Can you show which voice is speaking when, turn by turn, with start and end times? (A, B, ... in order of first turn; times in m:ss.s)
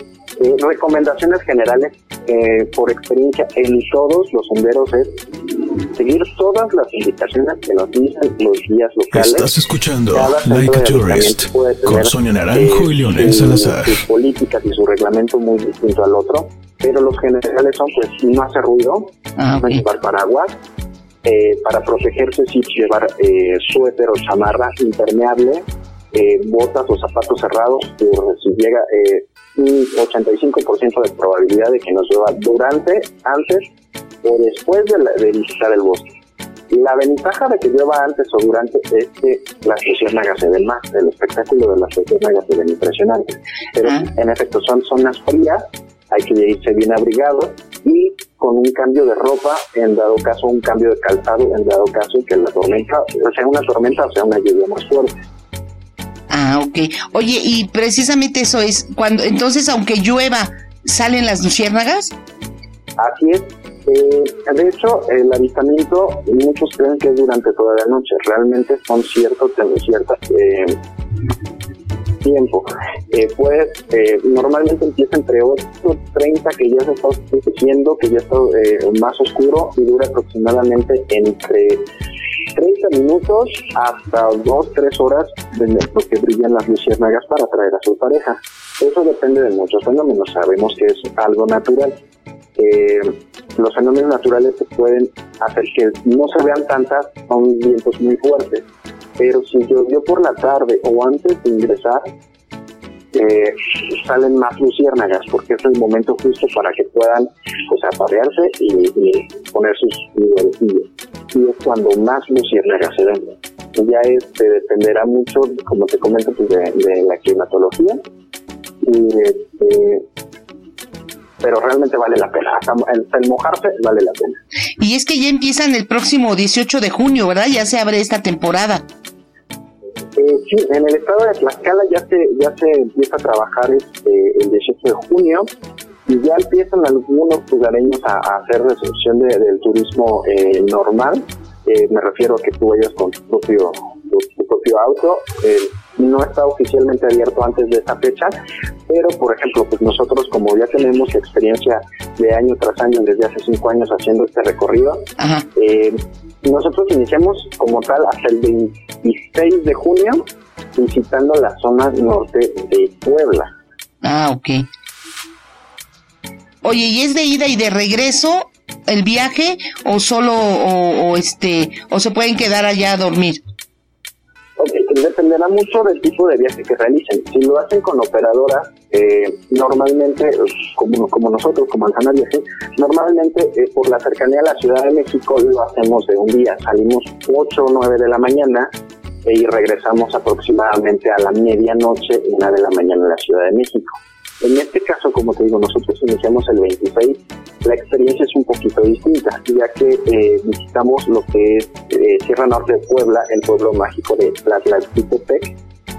0:00.4-0:09.5 A
0:09.1-0:14.0 B
0:10.1-0:20.5 A
0:19.4-0:19.8 C
0:21.2-0:33.6 A
0:34.2-0:36.1 A
0:36.7-0:55.1 A
0:56.3-1:02.1 C
1:03.0-1:10.8 A
1:12.2-1:21.8 A
1:22.6-1:31.9 A
1:32.6-1:38.6 A
1:39.2-1:42.0 A
1:43.1-1:58.0 A
1:58.8-2:00.0 A
2:01.4-2:04.4 A
2:04.8-2:08.8 C
2:10.2-2:15.5 A
2:16.1-2:28.3 A
2:28.9-2:40.2 A
2:35.2-2:35.4 C
2:40.8-2:43.5 A
2:44.0-2:44.6 C
2:46.6-2:53.4 C
2:54.6-3:08.7 A
3:09.2-3:25.5 A